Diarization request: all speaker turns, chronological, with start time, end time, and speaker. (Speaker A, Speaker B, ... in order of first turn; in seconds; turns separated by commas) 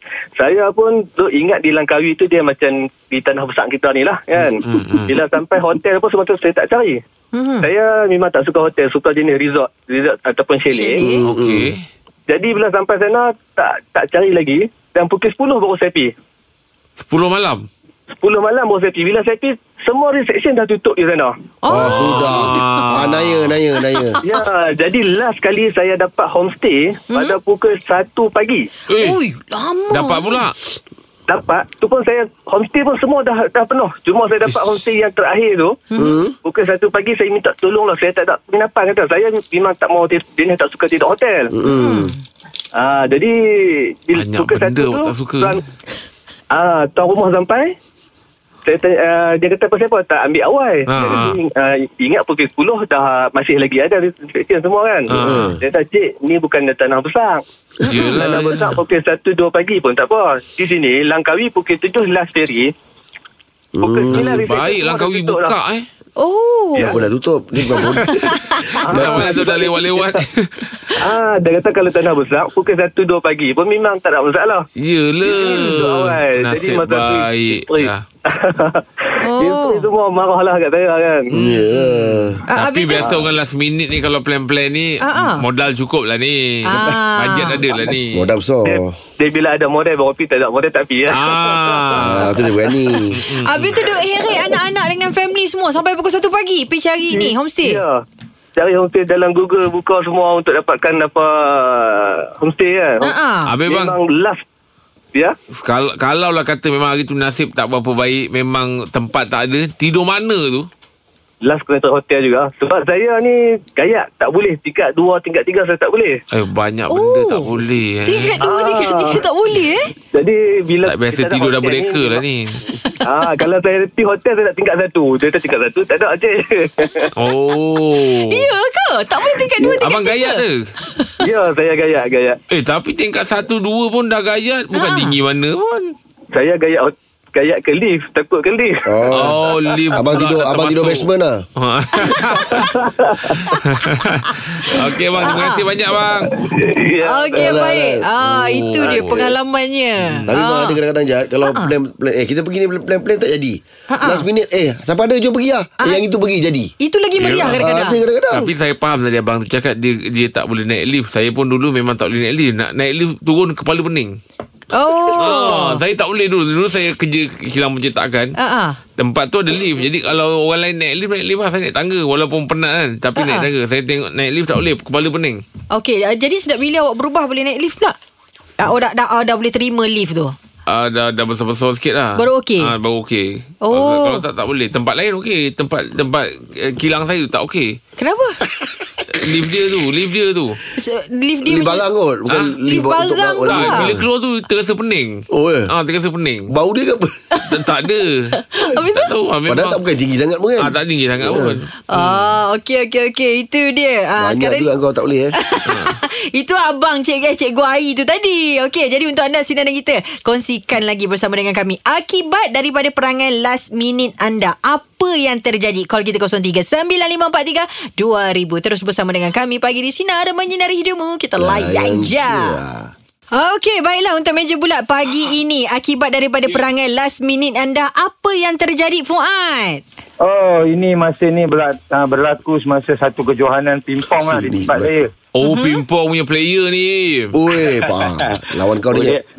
Speaker A: 0.4-7.0, Speaker B: 4.4-5.2, Speaker C: 7.3-7.7, Speaker A: 7.6-11.1, Speaker C: 10.7-11.3, Speaker D: 11.0-11.7, Speaker B: 11.2-11.8, Speaker A: 12.3-16.1, Speaker B: 17.0-17.7, Speaker A: 18.2-21.3, Speaker C: 21.6-22.9, Speaker D: 21.7-24.2, Speaker B: 21.8-23.6, Speaker C: 23.9-24.4, Speaker A: 24.2-28.7, Speaker C: 27.1-27.4, Speaker B: 28.9-29.2, Speaker C: 28.9-30.4, Speaker B: 29.9-30.6, Speaker A: 31.3-35.8, Speaker C: 35.9-36.2, Speaker D: 36.0-36.4, Speaker A: 36.4-41.5, Speaker D: 41.5-42.1, Speaker C: 41.7-42.2, Speaker A: 42.8-45.6, Speaker B: 44.1-45.6, Speaker A: 46.5-47.7, Speaker A: 48.7-57.4, Speaker B: 50.9-51.4, Speaker B: 55.1-55.6, Speaker D: 55.1-55.6, Speaker B: 57.9-58.9, Speaker A: 58.0-62.7, Speaker D: 63.8-64.5, Speaker A: 63.8-65.6, Speaker B: 64.1-65.9, Speaker C: 66.2-67.0, Speaker D: 66.8-68.2, Speaker B: 67.8-68.3, Speaker C: 68.2-68.6, Speaker A: 68.8-70.2, Speaker B: 68.9-70.7, Speaker D: 68.9-69.8, Speaker A: 71.0-74.7, Speaker B: 74.8-78.0, Speaker A: 75.2-81.4, Speaker C: 75.5-75.8, Speaker C: 79.2-79.9, Speaker D: 81.3-82.4, Speaker B: 81.4-88.3, Speaker C: 82.5-83.1, Speaker A: 83.0-83.3, Speaker C: 85.0-85.4, Speaker C: 86.7-87.6, Speaker D: 86.7-87.0, Speaker D: 88.1-88.9, Speaker A: 88.7-92.0, Speaker B: 91.1-92.5, Speaker D: 92.0-93.2, Speaker B: 93.1-93.8, Speaker C: 93.3-97.8, Speaker A: 97.1-98.0, Speaker A: 98.6-103.1, Speaker C: 103.0-103.6, Speaker B: 103.5-104.0, Speaker A: 103.7-104.4, Speaker B: 105.6-110.7, Speaker A: 111.4-116.2, Speaker B: 116.3-118.4, Speaker C: 116.9-119.9, Speaker A: 118.4-119.2, Speaker A: 120.1-122.2, Speaker B: 120.8-122.6, Speaker A: 123.0-127.1, Speaker B: 127.2-128.5, Speaker C: 128.0-131.1, Speaker B: 129.8-130.7, Speaker A: 131.2-132.4, Speaker B: 132.5-136.0, Speaker C: 134.7-135.2, Speaker A: 136.3-139.9, Speaker D: 138.9-139.4, Speaker B: 139.1-142.7, Speaker D: 140.0-141.4, Speaker C: 142.1-142.5, Speaker A: 142.5-143.4, Speaker C: 143.4-144.4, Speaker B: 143.7-146.3, Speaker C: 145.2-145.6, Speaker A: 146.4-147.6, Speaker C: 147.0-150.8, Speaker D: 147.4-148.7, Speaker B: 148.5-149.3, Speaker B: 150.1-150.3, Speaker D: 150.3-156.7, Speaker C: 151.4-151.8, Speaker C: 153.9-154.3, Speaker C: 156.8-158.0, Speaker B: 157.2-157.7, Speaker D: 157.6-158.5, Speaker B: 158.3-164.2, Speaker C: 164.7-165.8, Speaker B: 165.2-168.3, Speaker C: 168.4-168.8, Speaker B: 169.0-175.4, Speaker C: 173.2-173.5, Speaker C: 175.7-178.0, Speaker C: 178.6-180.3, Speaker B: 180.7-187.8, Speaker C: 182.2-182.7, Speaker C: 183.6-184.2, Speaker C: 188.0-188.4, Speaker B: 189.1-190.6, Speaker C: 190.8-191.8, Speaker D: 191.4-194.1, Speaker C: 192.7-193.9, Speaker B: 193.5-195.2, Speaker D: 195.3-195.7, Speaker B: 195.7-196.5, Speaker D: 196.5-197.1, Speaker B: 197.5-198.2, Speaker C: 198.3-199.1, Speaker B: 199.0-199.8, Speaker D: 199.5-201.6, Speaker B: 200.6-202.2, Speaker C: 201.9-204.7, Speaker D: 204.2-205.4, Speaker C: 205.4-222.5, Speaker B: 205.7-206.0, Speaker D: 221.4-222.9, Speaker C: 223.3-229.8, Speaker E: 230.2-235.1, Speaker D: 234.2-234.9, Speaker B: 235.3-237.3, Speaker C: 235.4-235.8, Speaker D: 237.3-239.2, Speaker E: 237.7-239.2